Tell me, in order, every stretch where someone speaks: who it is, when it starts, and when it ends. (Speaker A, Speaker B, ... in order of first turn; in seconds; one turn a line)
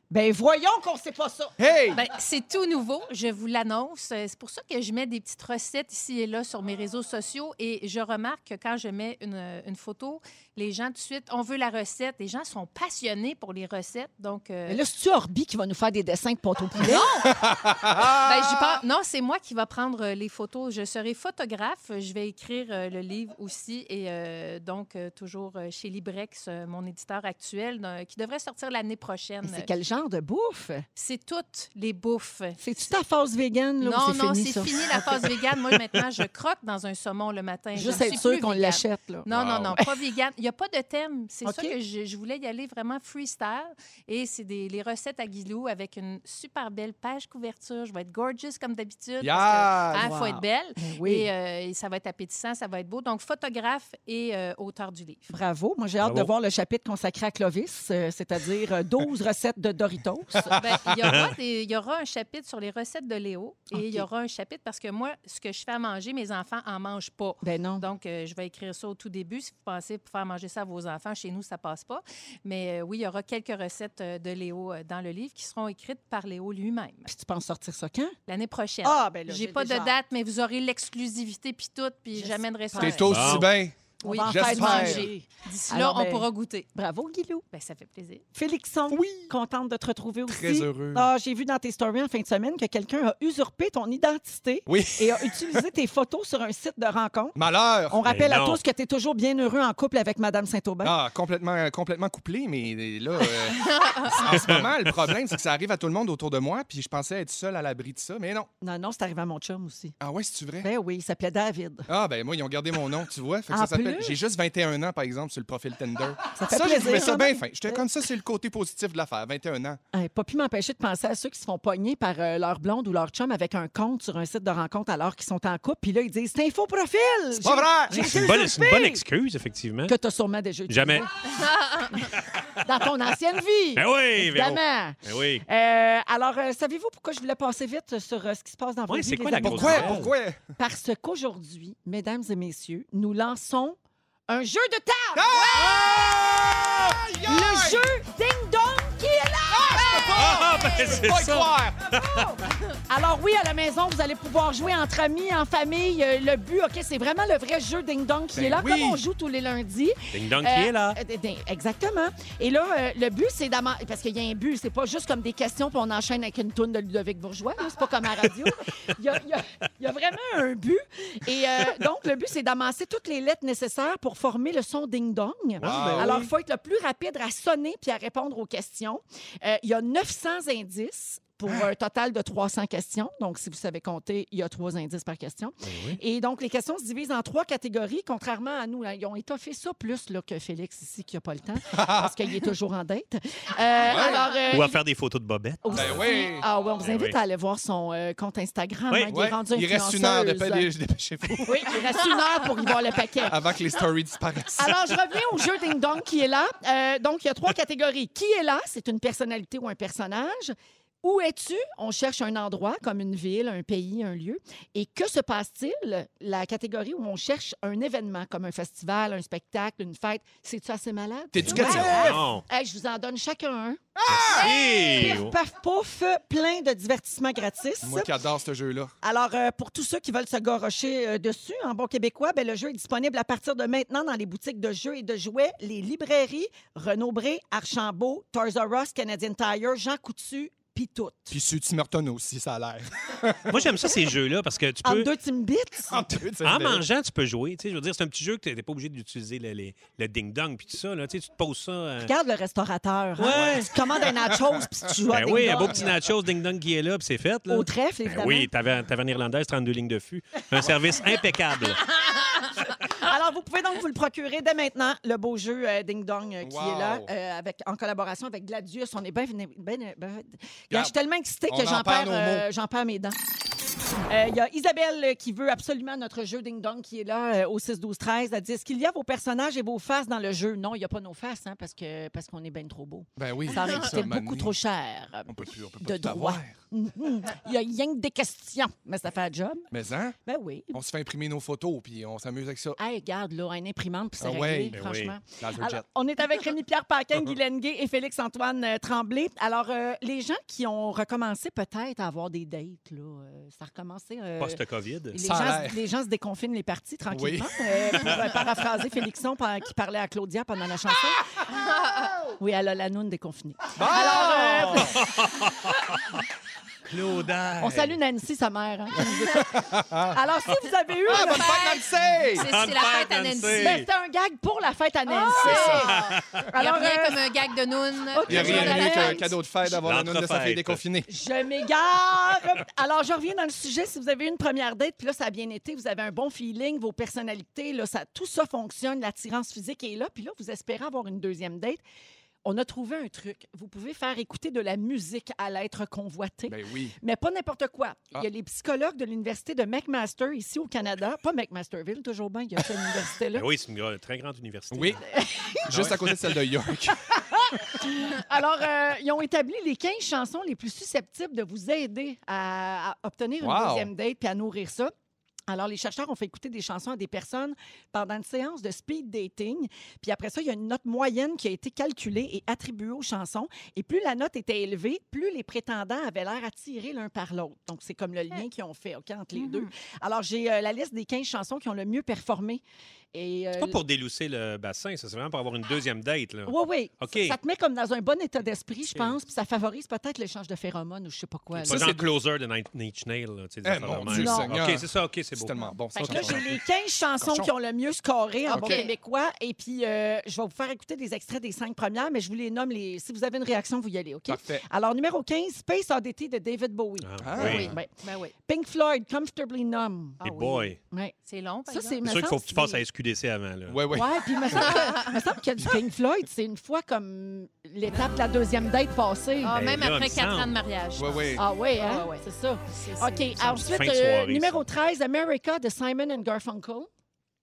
Speaker A: 0.1-2.1
Speaker B: 1.6-2.0
Speaker C: 1.9-14.8
Speaker A: 14.7-17.0
Speaker C: 16.8-29.7
Speaker B: 17.4-18.8
Speaker A: 29.4-30.9
Speaker C: 30.9-32.9
Speaker A: 32.6-35.4
Speaker C: 33.8-55.3
Speaker A: 37.8-39.3
Speaker B: 39.3-39.8
Speaker A: 41.4-41.7
Speaker B: 49.2-50.1
Speaker A: 49.9-51.3
Speaker A: 55.3-60.6
Speaker D: 56.0-56.3
Speaker B: 60.5-60.7
Speaker C: 60.5-77.1
Speaker A: 63.7-64.0
Speaker A: 67.4-67.8
Speaker A: 77.1-78.1
Speaker C: 78.3-83.5
Speaker A: 78.8-79.9
Speaker A: 82.1-83.1
Speaker B: 82.8-85.1
Speaker D: 83.1-83.5
Speaker A: 84.0-87.4
Speaker C: 84.0-86.7
Speaker C: 87.5-88.2
Speaker A: 88.3-97.3
Speaker B: 88.9-89.3
Speaker B: 90.3-91.1
Speaker B: 94.7-95.6
Speaker B: 97.3-98.0
Speaker A: 97.9-101.0
Speaker D: 98.0-98.6
Speaker B: 100.8-108.5
Speaker C: 103.5-104.2
Speaker D: 104.2-104.7
Speaker A: 108.6-110.0
Speaker B: 110.0-110.7
Speaker A: 110.6-111.9
Speaker B: 111.9-119.8
Speaker A: 113.5-114.2
Speaker A: 116.3-117.8
Speaker A: 119.9-129.0
Speaker B: 127.3-128.3
Speaker D: 127.9-129.9
Speaker A: 129.9-131.1
Speaker D: 130.7-131.1
Speaker C: 131.3-132.0
Speaker A: 132.6-143.8
Speaker D: 133.8-135.4
Speaker D: 138.9-140.1
Speaker B: 139.4-140.4
Speaker A: 144.3-145.9
Speaker B: 145.1-147.9
Speaker A: 147.2-150.5
Speaker B: 149.5-151.9
Speaker D: 150.1-152.2
Speaker A: 151.9-194.8
Speaker B: 158.3-159.0
Speaker D: 160.1-161.0
Speaker D: 175.6-176.3
Speaker B: 175.6-176.3
Speaker D: 185.6-186.0
Speaker B: 191.7-192.2
Speaker B: 193.8-194.3
Speaker D: 194.4-196.1
Speaker A: 195.6-200.7
Speaker B: 195.7-196.5
Speaker D: 196.8-197.2
Speaker D: 198.9-199.2
Speaker B: 199.1-201.8
Speaker A: 201.4-203.4
Speaker B: 203.2-204.9
Speaker A: 204.6-223.8
Speaker B: 221.3-222.2
Speaker D: 221.4-222.4
Speaker B: 223.9-224.5
Speaker D: 224.1-225.3
Speaker A: 224.3-228.1
Speaker B: 227.8-228.9
Speaker A: 229.0-241.4
Speaker B: 241.3-243.9
Speaker D: 243.5-245.1
Speaker A: 244.8-246.1
Speaker B: 245.9-246.8
Speaker D: 246.4-252.1
Speaker A: 252.0-255.9
Speaker D: 253.2-254.1
Speaker B: 253.3-254.7
Speaker D: 255.1-261.9
Speaker A: 257.5-258.5
Speaker B: 260.5-260.9
Speaker A: 262.9-273.2
Speaker B: 266.4-267.1
Speaker B: 271.5-272.4
Speaker A: 274.1-285.3
Speaker B: 283.2-284.6
Speaker C: 283.5-283.9
Speaker B: 285.3-286.6
Speaker A: 285.8-289.6
Speaker B: 289.7-290.1
Speaker A: 290.2-290.8
Speaker B: 290.7-292.8
Speaker A: 292.8-311.2
Speaker B: 294.2-294.8
Speaker D: 294.7-295.1
Speaker B: 295.4-295.8
Speaker D: 304.4-305.4
Speaker B: 305.2-305.8
Speaker B: 307.1-308.3
Speaker C: 311.6-312.1
Speaker A: 312.4-315.0
Speaker B: 313.8-315.0
Speaker D: 314.9-315.8
Speaker D: 316.9-317.9
Speaker A: 317.6-321.5
Speaker B: 319.1-320.2
Speaker B: 321.0-322.5
Speaker C: 321.1-323.8
Speaker D: 322.4-323.9
Speaker A: 323.5-327.2
Speaker C: 325.1-329.3
Speaker B: 325.4-326.0
Speaker D: 325.6-326.4
Speaker A: 328.1-329.3
Speaker B: 328.2-331.1
Speaker D: 328.3-328.8
Speaker D: 329.7-330.8
Speaker A: 331.1-341.8
Speaker A: 342.4-353.5
Speaker B: 346.5-346.9
Speaker D: 353.3-355.0
Speaker B: 354.7-355.0
Speaker A: 355.1-355.9
Speaker B: 355.7-357.6
Speaker D: 355.7-356.0
Speaker A: 357.8-364.9
Speaker B: 363.4-363.9
Speaker A: 365.5-382.6
Speaker C: 379.3-379.7
Speaker A: 383.1-383.8
Speaker D: 383.6-387.4
Speaker A: 386.4-391.9
Speaker D: 391.5-396.5
Speaker B: 391.6-392.1
Speaker B: 393.6-396.4
Speaker A: 394.0-394.5
Speaker A: 396.0-407.9
Speaker B: 397.2-397.5
Speaker C: 398.5-398.9
Speaker B: 398.5-398.8
Speaker B: 404.3-404.6
Speaker D: 407.0-407.7
Speaker B: 407.2-407.8
Speaker C: 407.4-408.3
Speaker A: 408.4-411.1
Speaker D: 410.2-410.8
Speaker C: 411.2-412.0
Speaker A: 411.7-412.8
Speaker D: 412.0-414.0
Speaker B: 413.7-414.7
Speaker A: 413.9-419.6
Speaker C: 414.5-415.2
Speaker C: 419.4-423.3
Speaker D: 419.5-420.5
Speaker B: 420.9-421.4
Speaker A: 421.4-426.9
Speaker D: 423.4-424.6